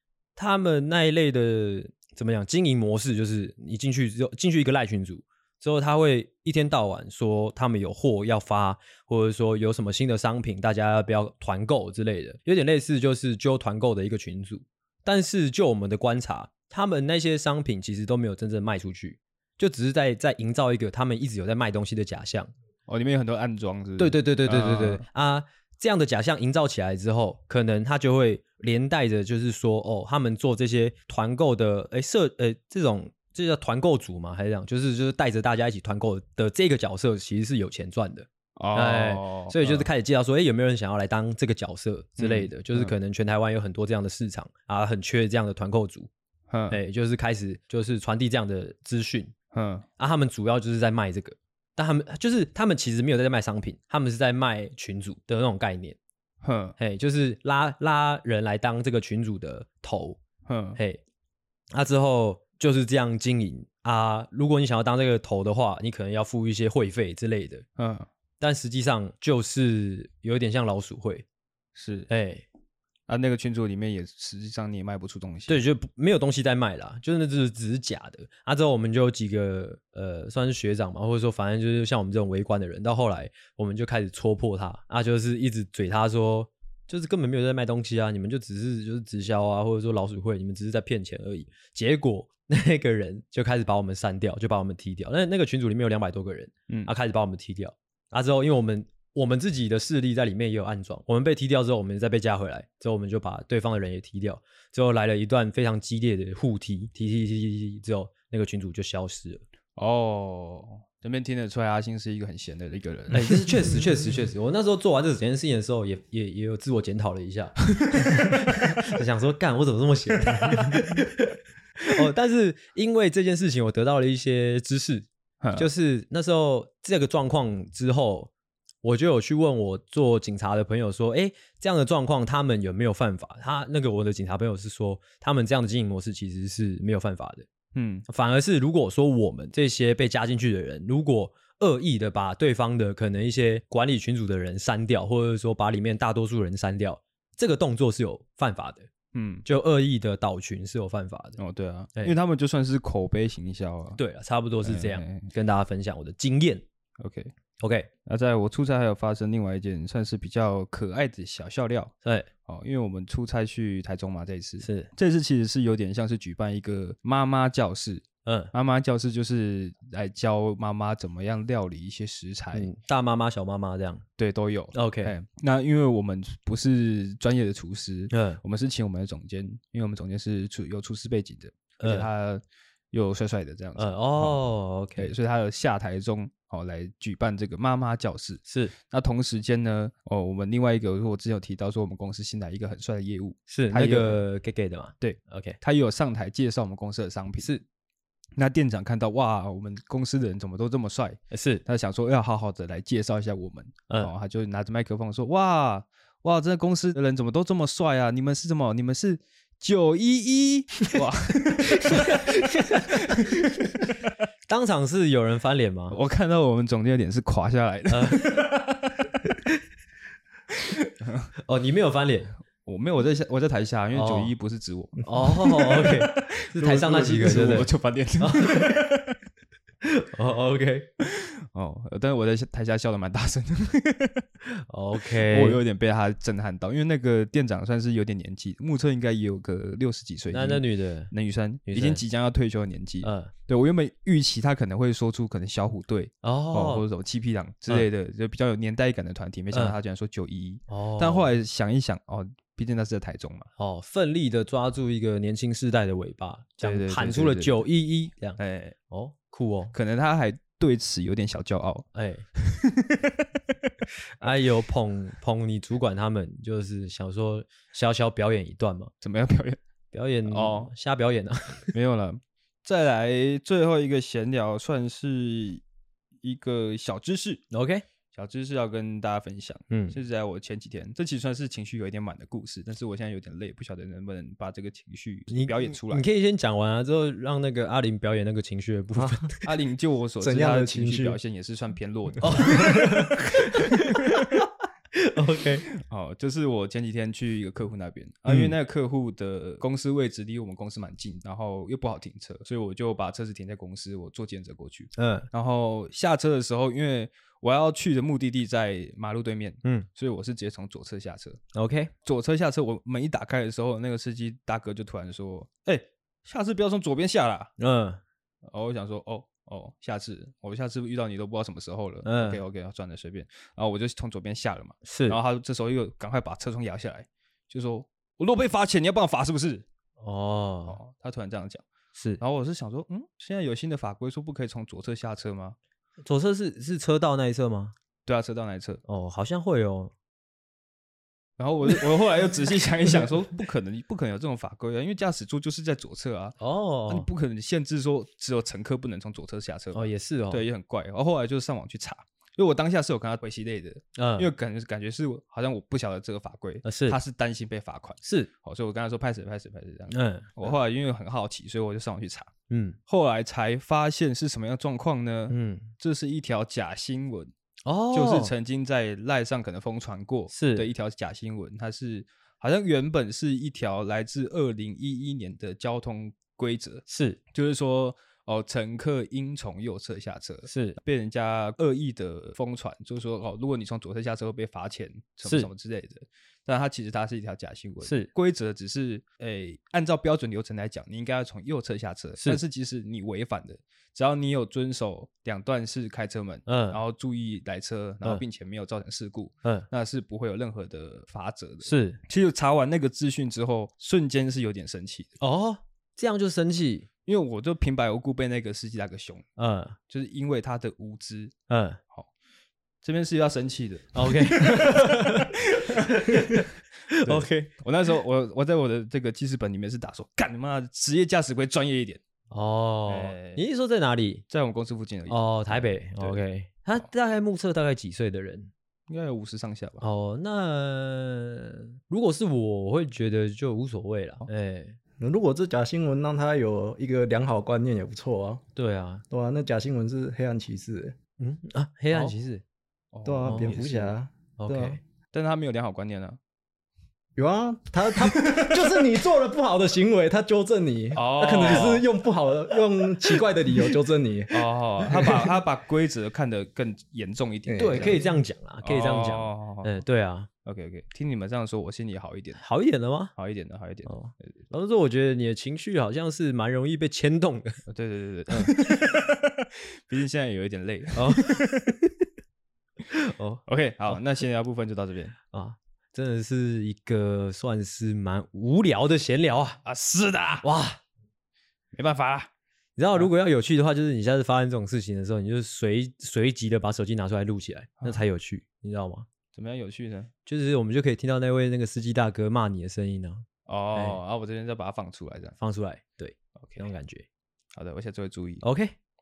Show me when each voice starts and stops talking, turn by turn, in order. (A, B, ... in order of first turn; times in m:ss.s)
0:00.4-0:22.5 A
0:22.9-0:25.0 B
0:24.0-0:46.1 A
0:38.6-0:39.9 B
0:42.2-0:42.9 B
0:46.5-0:46.8 B
0:46.7-0:49.3 A
0:49.5-0:49.8 B
0:50.0-0:56.0 A
0:56.4-0:56.8 B
0:56.8-1:00.2 A
1:00.4-1:00.8 B
1:00.8-1:01.0 A
1:01.7-1:07.6 A
1:07.8-1:08.1 B
1:08.4-1:11.2 A
1:11.7-1:12.1 B
1:12.1-1:12.4 A
1:13.1-1:15.6 B
1:15.5-1:49.4 A
1:49.8-1:53.8 B
1:53.1-2:08.3 A
1:57.8-1:58.2 B
2:00.3-2:00.9 B
2:05.4-2:05.7 B
2:08.8-2:17.5 A
2:17.7-2:18.0 B
2:18.1-2:28.9 A
2:29.1-2:29.4 B
2:29.4-2:31.4 A
2:31.4-2:34.0 B
2:34.0-2:36.6 A
2:34.6-2:35.3 B
2:37.0-2:37.3 B
2:37.6-2:37.9 A
2:38.0-2:41.9 B
2:42.4-2:52.7 B
2:44.6-2:44.9 A
2:48.2-2:48.5 A
2:52.5-2:54.0 A
2:54.2-3:04.4 B
2:54.7-2:55.1 A
2:58.1-2:58.4 A
3:01.8-3:02.1 A
3:03.8-3:05.1 A
3:05.0-3:14.2 B
3:08.4-3:08.7 A
3:13.5-3:15.6 A
3:15.0-3:17.5 B
3:18.4-3:33.5 B
3:21.3-3:21.6 A
3:31.8-3:33.2 A
3:34.5-3:36.0 A
3:35.9-3:39.0 B
3:37.9-3:38.5 A
3:40.7-3:41.3 B
3:41.4-3:42.3 A
3:42.6-3:49.1 B
3:43.9-3:44.3 A
3:45.0-3:48.9 A
3:49.8-3:50.9 A
3:51.0-3:54.2 B
3:54.7-3:55.6 A
3:55.2-4:13.5 B
4:00.3-4:01.1 A
4:01.6-4:02.0 A
4:03.0-4:03.3 A
4:06.2-4:06.8 A
4:10.7-4:11.3 A
4:13.6-4:18.4 A
4:16.6-4:17.6 B
4:18.4-4:18.8 B
4:18.9-4:19.7 A
4:19.7-4:21.9 B
4:21.9-4:22.2 A
4:22.4-4:23.1 B
4:24.2-4:28.9 A
4:29.0-4:29.6 B
4:29.9-4:31.7 A
4:30.2-4:30.7 B
4:31.7-4:35.6 B
4:36.2-4:37.4 B
4:37.5-4:37.8 A
4:38.1-4:46.0 B
4:39.7-4:40.0 A
4:45.3-4:49.3 A
4:49.0-4:49.3 C
4:49.4-4:53.4 B
4:50.2-4:51.2 C
4:52.2-4:54.4 A
4:52.5-4:53.1 C
4:55.0-4:55.6 A
4:55.8-5:11.4 B
4:58.3-4:58.5 A
5:05.0-5:05.3 A
5:11.5-5:11.9 A
5:12.0-5:17.5 B
5:17.6-5:18.0 A
5:18.5-5:29.6 B
5:22.0-5:22.4 A
5:24.8-5:25.2 A
5:30.0-5:30.8 A
5:30.7-5:31.6 B
5:32.0-5:32.2 A
5:32.2-5:35.6 B
5:36.0-5:37.7 A
5:38.0-5:38.8 B
5:38.8-5:39.9 A
5:41.4-5:46.4 B
5:46.4-5:47.0 A
5:46.9-6:02.3 B
5:49.7-5:50.4 A
5:54.0-5:54.3 A
5:56.6-5:57.0 A
5:58.0-5:58.3 A
5:59.9-6:00.5 A
6:02.5-6:02.8 A
6:02.9-6:07.3 B
6:05.3-6:05.7 A
6:07.6-6:08.3 A
6:07.9-6:45.1 B
6:10.3-6:10.7 A
6:16.9-6:17.2 A
6:20.5-6:20.8 A
6:25.2-6:25.5 A
6:27.8-6:28.1 A
6:36.4-6:36.8 A
6:41.6-6:42.0 A
6:45.2-6:46.9 A
6:47.0-6:49.2 B
6:49.4-6:49.8 A
6:49.9-6:51.3 B
6:51.5-6:51.8 A
6:52.8-6:56.4 B
6:53.9-6:57.5 A
6:57.0-7:02.0 B
7:02.3-7:04.2 A
7:02.9-7:03.4 B
7:04.3-7:06.2 B
7:05.1-7:08.5 A
7:08.9-7:09.8 B
7:09.8-7:14.8 A
7:15.0-7:18.4 C
7:18.6-7:19.0 A
7:19.1-7:21.0 C
7:21.2-7:22.4 A
7:22.9-7:23.9 B
7:23.0-7:24.8 C
7:23.2-7:23.5 A
7:24.4-7:24.8 A
7:25.1-7:26.2 B
7:27.2-7:35.3 C
7:28.2-7:28.5 B
7:30.9-7:31.8 B
7:34.3-7:38.0 B
7:37.4-7:38.0 C
7:37.6-7:40.3 A
7:38.6-7:39.7 B
7:40.4-7:42.4 B
7:42.4-7:43.1 A
7:43.2-7:43.9 B
7:43.8-7:47.6 A
7:47.7-7:51.6 B
7:48.3-7:48.8 A
7:51.0-7:51.9 A
7:52.9-7:54.0 A
7:53.5-7:55.1 B
7:55.3-7:59.6 A
7:59.6-8:00.4 B
8:00.4-8:00.8 A
8:01.7-8:02.3 B
8:02.8-8:09.1 A
8:09.3-8:10.1 B
8:10.2-8:14.0 A
8:13.4-8:15.4 B
8:15.4-8:17.0 A
8:16.4-8:16.6 B
8:17.5-8:18.4 B
8:18.4-8:18.7 A